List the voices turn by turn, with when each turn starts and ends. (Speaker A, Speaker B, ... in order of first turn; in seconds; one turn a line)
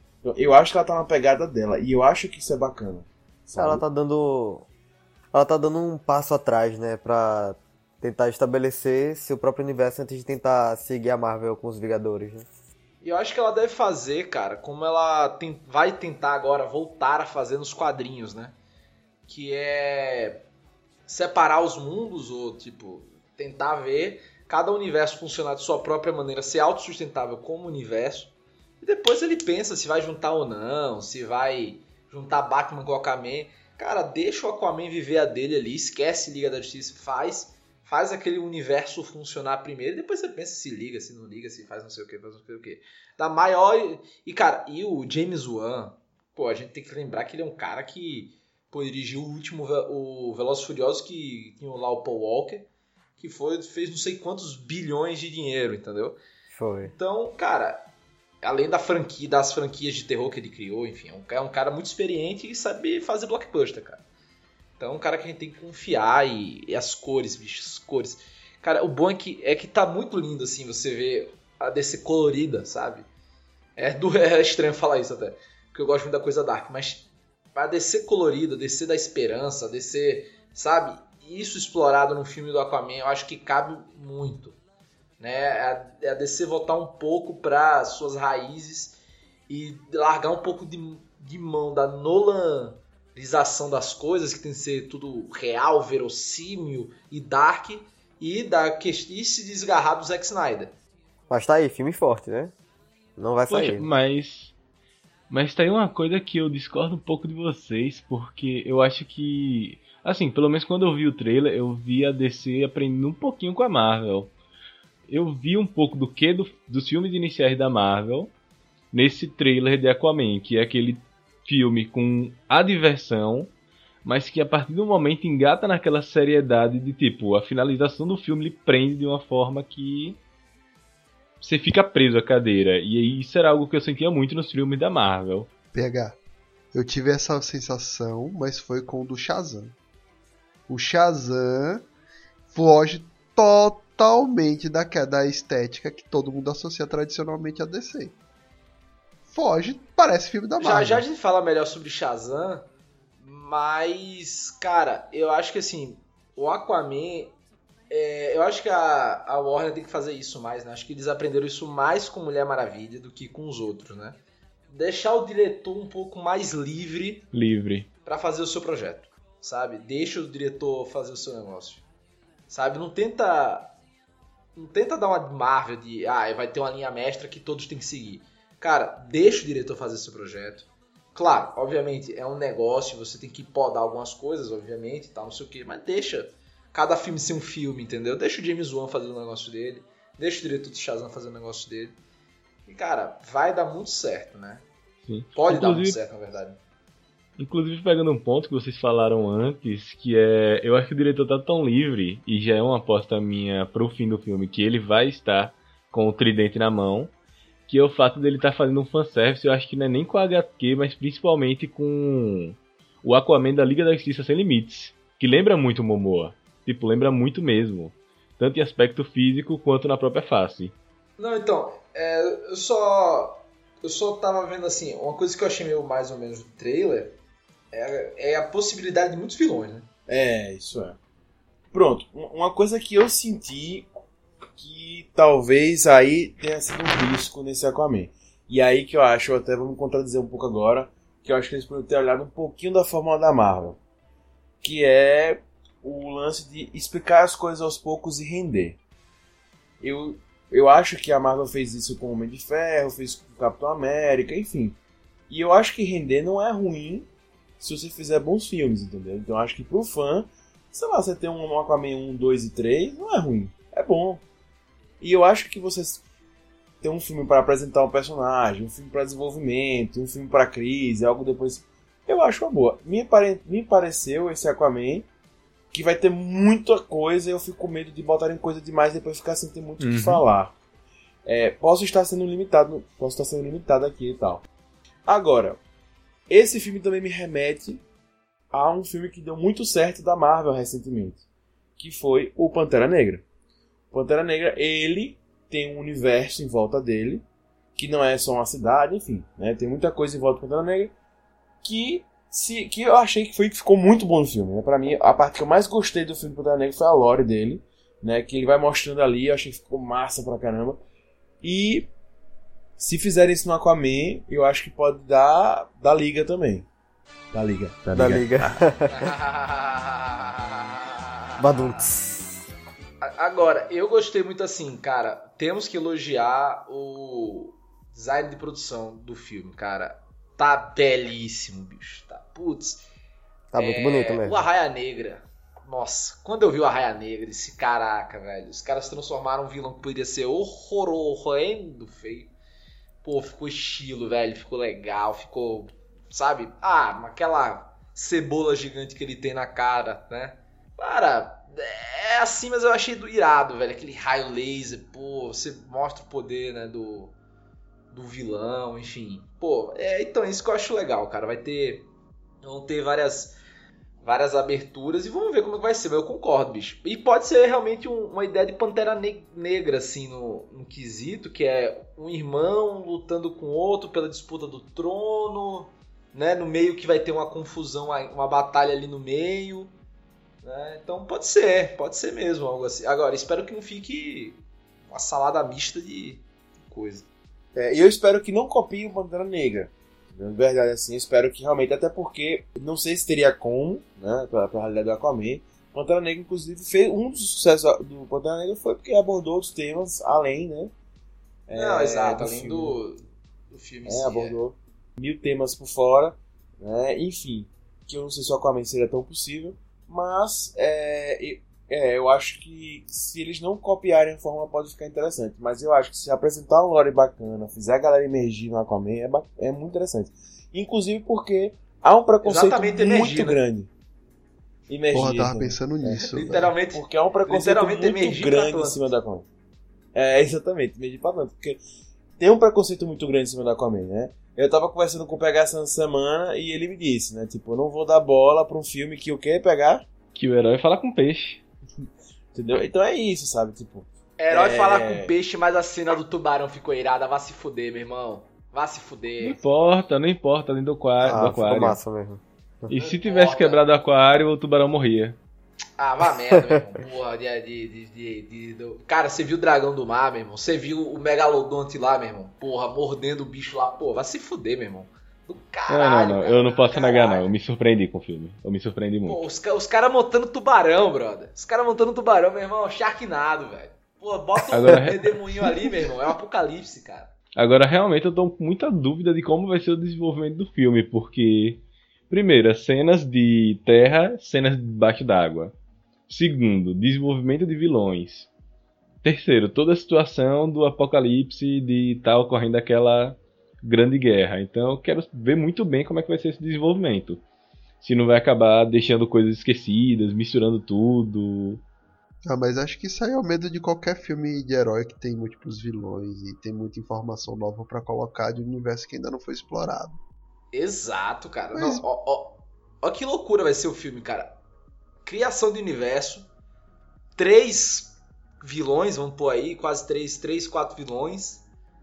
Speaker A: 0.2-3.9
Speaker B: 3.6-4.7
Speaker B: 5.3-12.5
Speaker C: 13.0-18.6
Speaker C: 19.3-20.4
Speaker C: 21.1-52.7
Speaker C: 53.2-56.2
Speaker B: 56.5-56.9
Speaker C: 56.8-57.8
Speaker C: 58.4-64.0
Speaker C: 64.8-73.1
Speaker C: 73.8-84.6
Speaker C: 85.2-89.0
Speaker C: 89.5-100.7
Speaker B: 101.3-102.5
Speaker B: 103.2-103.9
Speaker D: 103.5-104.5
Speaker D: 105.3-114.3
Speaker D: 115.1-118.3
Speaker D: 118.9-123.5
Speaker D: 124.0-130.2
Speaker D: 131.4-135.5
Speaker E: 135.7-136.2
Speaker E: 136.7-139.8
Speaker E: 140.7-141.9
Speaker E: 142.5-148.2
Speaker E: 149.3-151.1
Speaker C: 150.6-152.7
Speaker C: 153.2-157.3
Speaker C: 157.9-164.2
Speaker C: 164.7-167.3
Speaker D: 167.3-167.9
Speaker C: 168.1-171.8
Speaker C: 172.5-173.7
Speaker C: 174.6-192.0
Speaker C: 192.7-194.6
Speaker D: 195.1-196.0
Speaker C: 195.4-196.6
Speaker D: 197.4-207.1
Speaker D: 207.7-220.8
Speaker C: 221.2-227.2
Speaker C: 227.7-229.9
Speaker A: 230.1-231.0
Speaker A: 231.7-233.9
Speaker A: 234.6-243.8
Speaker A: 244.6-248.8
Speaker A: 249.8-254.8
Speaker A: 255.3-257.1
Speaker A: 257.6-264.2
Speaker A: 265.0-266.0
Speaker A: 266.8-275.1
Speaker A: 275.7-280.5
Speaker D: 279.8-280.2
Speaker A: 281.3-284.4
Speaker A: 285.1-285.6
Speaker A: 286.3-287.8
Speaker A: 288.5-291.2
Speaker A: 291.8-293.2
Speaker A: 293.9-297.2
Speaker A: 297.8-300.9
Speaker A: 301.6-310.8
Speaker A: 311.4-311.9
Speaker A: 312.8-316.7
Speaker A: 317.3-318.6
Speaker B: 317.9-319.1
Speaker C: 318.9-321.8
Speaker B: 321.4-322.3
Speaker C: 323.0-332.8
Speaker B: 333.5-334.5
Speaker C: 333.6-342.3
Speaker C: 343.0-357.1
Speaker C: 357.9-361.9
Speaker C: 362.4-363.4
Speaker C: 364.0-379.7
Speaker C: 380.4-387.1
Speaker A: 387.5-400.7
Speaker A: 401.5-402.8
Speaker C: 401.5-404.4
Speaker A: 403.9-423.7
Speaker C: 422.2-423.4
Speaker A: 424.7-429.3
Speaker E: 424.9-426.5
Speaker C: 426.0-428.8
Speaker A: 429.9-431.6
Speaker A: 432.2-439.9
Speaker D: 440.1-441.4
Speaker A: 442.3-445.1
Speaker C: 444.2-449.4
Speaker D: 449.2-451.8
Speaker B: 451.0-452.8
Speaker D: 452.7-455.2
Speaker C: 452.7-453.6
Speaker C: 455.8-467.3
Speaker D: 465.7-469.2
Speaker C: 469.1-477.1
Speaker D: 474.5-475.2
Speaker D: 477.4-485.5
Speaker D: 486.1-488.3
Speaker D: 489.0-497.2
Speaker D: 497.8-501.6
Speaker E: 502.3-510.0
Speaker C: 510.5-514.4
Speaker E: 511.5-511.9
Speaker C: 515.0-516.3
Speaker C: 517.2-521.4